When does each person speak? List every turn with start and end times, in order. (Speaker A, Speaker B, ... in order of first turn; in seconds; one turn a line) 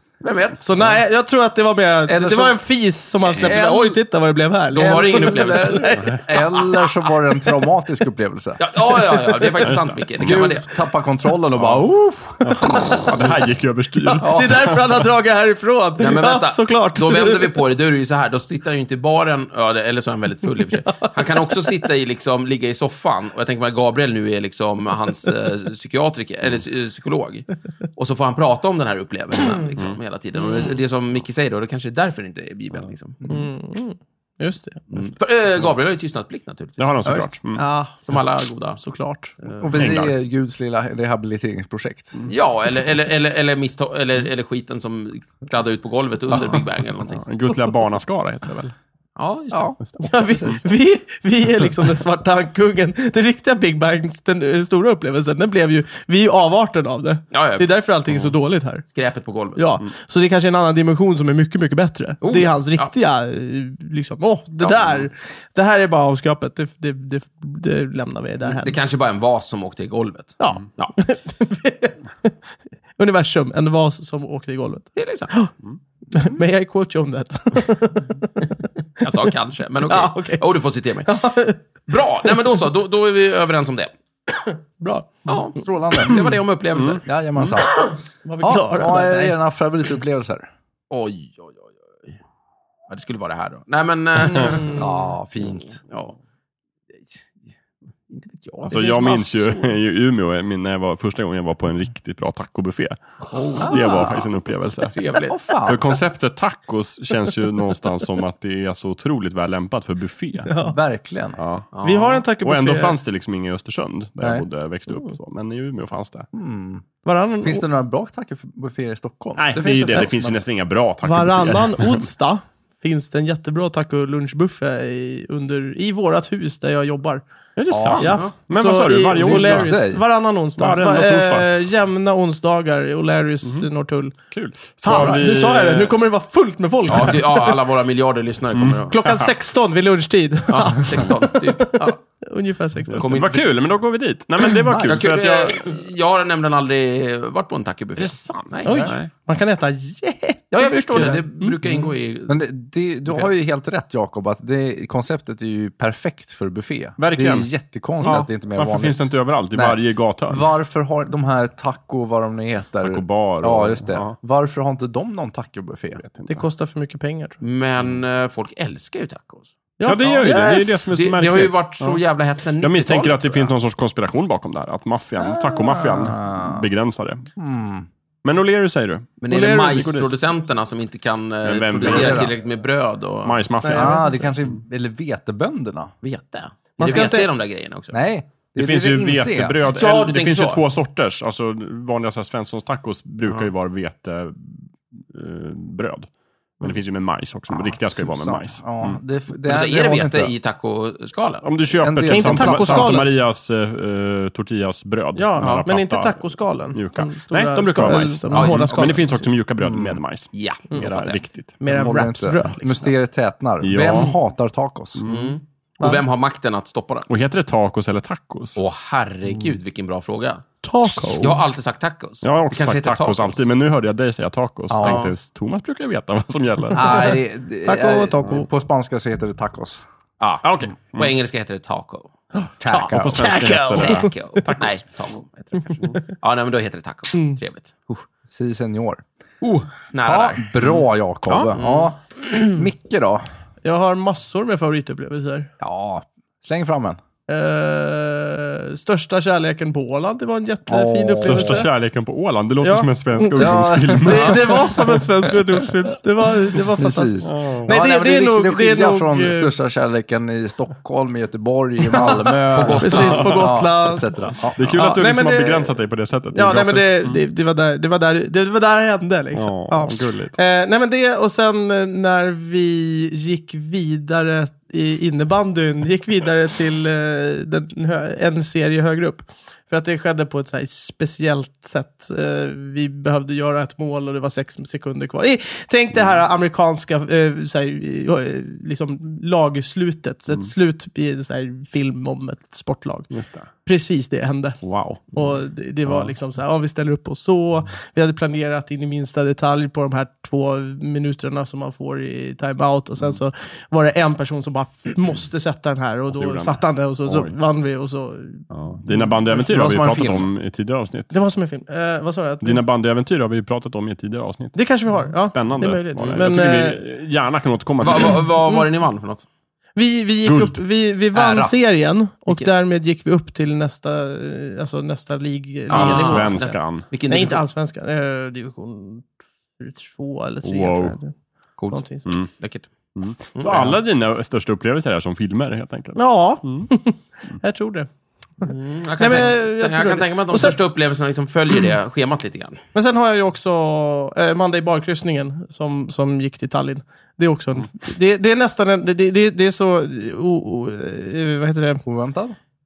Speaker A: 0.2-0.9
Speaker B: 0.6-6.2
Speaker A: 2.1-2.6
Speaker C: 3.3-4.0
Speaker A: 4.7-7.0
Speaker C: 4.7-9.4
Speaker A: 8.6-10.8
Speaker D: 9.6-10.4
Speaker C: 10.2-12.5
Speaker D: 11.6-11.8
Speaker D: 12.4-15.0
Speaker B: 14.0-17.4
Speaker C: 14.2-14.5
Speaker A: 16.0-33.2
Speaker B: 33.3-35.1
Speaker A: 34.9-37.1
Speaker D: 36.8-37.6
Speaker B: 37.5-38.1
Speaker A: 38.1-38.8
Speaker B: 38.8-39.4
Speaker A: 39.4-39.9
Speaker C: 39.6-42.2
Speaker D: 39.7-40.1
Speaker A: 42.3-47.2
Speaker D: 47.2-48.7
Speaker A: 49.2-49.7
Speaker C: 49.5-49.8
Speaker B: 50.0-58.8
Speaker C: 50.3-50.6
Speaker A: 57.3-57.7
Speaker A: 58.9-59.8
Speaker B: 59.5-68.8
Speaker A: 62.2-62.9
Speaker A: 64.6-65.1
Speaker A: 68.5-70.9
Speaker B: 70.4-72.3
Speaker B: 73.0-75.5
Speaker A: 75.0-75.3
Speaker B: 76.1-78.5
Speaker A: 79.0-81.2
Speaker B: 79.9-80.4
Speaker B: 81.0-81.6
Speaker A: 81.9-83.9
Speaker B: 84.4-85.2
Speaker A: 85.3-87.0
Speaker C: 85.6-86.3
Speaker C: 87.0-90.5
Speaker B: 87.8-89.3
Speaker A: 90.9-92.1
Speaker A: 92.9-96.2
Speaker C: 94.3-95.7
Speaker A: 98.1-99.3
Speaker D: 98.7-103.0
Speaker A: 103.3-104.3
Speaker C: 103.6-104.0
Speaker D: 103.7-105.0
Speaker A: 104.9-105.7
Speaker C: 105.3-105.8
Speaker D: 105.6-110.5
Speaker B: 110.5-110.8
Speaker C: 110.7-111.4
Speaker D: 111.4-111.7
Speaker A: 111.7-112.2
Speaker B: 111.8-112.9
Speaker D: 112.4-116.3
Speaker C: 116.3-116.8
Speaker B: 117.0-117.6
Speaker C: 117.4-120.4
Speaker D: 119.3-122.0
Speaker B: 121.0-127.2
Speaker D: 127.5-129.8
Speaker C: 127.7-128.2
Speaker B: 127.8-134.2
Speaker C: 129.2-130.0
Speaker D: 130.6-131.5
Speaker D: 134.3-136.0
Speaker B: 134.8-137.6
Speaker C: 134.9-135.2
Speaker A: 136.9-139.2
Speaker D: 138.5-139.3
Speaker B: 138.9-143.2
Speaker A: 140.5-142.0
Speaker D: 142.9-145.7
Speaker A: 143.0-143.5
Speaker C: 144.6-145.0
Speaker A: 144.9-148.8
Speaker D: 148.0-149.1
Speaker B: 148.6-151.5
Speaker A: 150.5-152.4
Speaker C: 151.7-166.0
Speaker D: 157.0-157.5
Speaker D: 158.0-160.4
Speaker D: 162.8-164.1
Speaker D: 166.0-166.4
Speaker B: 166.3-167.4
Speaker A: 167.4-169.5
Speaker B: 169.8-170.9
Speaker D: 169.8-172.0
Speaker A: 170.9-173.5
Speaker D: 172.6-177.2
Speaker C: 175.2-176.7
Speaker C: 177.3-177.9
Speaker D: 178.2-180.1
Speaker A: 179.2-183.4
Speaker B: 179.3-179.9
Speaker D: 181.4-182.3
Speaker C: 181.8-182.3
Speaker D: 183.2-184.3
Speaker B: 183.6-184.0
Speaker C: 183.7-185.9
Speaker A: 186.0-187.9
Speaker B: 186.8-187.3
Speaker C: 187.9-189.9
Speaker D: 188.6-196.1
Speaker A: 189.7-190.6
Speaker D: 196.6-199.0
Speaker C: 197.5-200.3
Speaker A: 199.5-201.5
Speaker D: 201.4-211.9
Speaker C: 201.8-203.1
Speaker B: 202.1-203.1
Speaker B: 205.1-209.3
Speaker A: 208.3-208.7
Speaker C: 209.6-210.0
Speaker A: 210.3-211.2
Speaker B: 211.6-212.8
Speaker C: 211.7-215.0
Speaker D: 213.6-214.2
Speaker D: 214.9-215.3
Speaker A: 215.1-217.1
Speaker D: 217.1-218.6
Speaker A: 218.6-220.4
Speaker B: 220.6-221.4
Speaker A: 221.2-223.4
Speaker D: 222.2-227.2
Speaker C: 224.7-225.1
Speaker A: 224.8-225.1
Speaker C: 226.7-229.8
Speaker B: 226.8-228.5
Speaker A: 230.2-232.1
Speaker D: 230.4-231.1
Speaker D: 232.4-234.8
Speaker C: 232.6-233.4
Speaker B: 232.7-234.4
Speaker A: 233.7-238.0
Speaker C: 238.3-239.0
Speaker A: 239.4-240.9
Speaker C: 240.0-243.2
Speaker D: 240.6-241.5
Speaker A: 241.5-241.9
Speaker B: 243.6-245.5
Speaker C: 245.6-247.0
Speaker B: 247.3-251.7
Speaker C: 250.7-251.7
Speaker D: 251.2-254.7
Speaker B: 252.6-259.5
Speaker C: 253.3-254.6
Speaker C: 256.5-264.7
Speaker D: 257.2-257.7
Speaker A: 262.2-263.4
Speaker B: 262.8-265.8
Speaker D: 264.6-267.2
Speaker B: 266.3-293.1
Speaker D: 269.3-270.4
Speaker D: 293.1-293.5
Speaker B: 293.6-309.1
Speaker D: 294.6-295.1
Speaker D: 306.1-307.3
Speaker D: 308.5-311.1
Speaker C: 309.3-310.3
Speaker B: 311.1-312.6
Speaker D: 312.4-318.2
Speaker B: 314.5-316.8
Speaker A: 317.8-319.2
Speaker B: 319.8-326.6
Speaker D: 320.2-320.6
Speaker C: 321.1-321.6
Speaker A: 325.7-327.4
Speaker D: 325.7-326.9
Speaker B: 327.1-329.1
Speaker B: 329.6-331.1
Speaker D: 330.4-330.9
Speaker A: 331.6-332.7
Speaker B: 331.7-332.1
Speaker D: 332.0-332.3
Speaker D: 332.9-336.7
Speaker A: 333.2-333.8
Speaker B: 335.9-337.9
Speaker A: 338.4-342.6
Speaker B: 339.0-340.6
Speaker B: 342.7-351.8
Speaker C: 351.8-352.4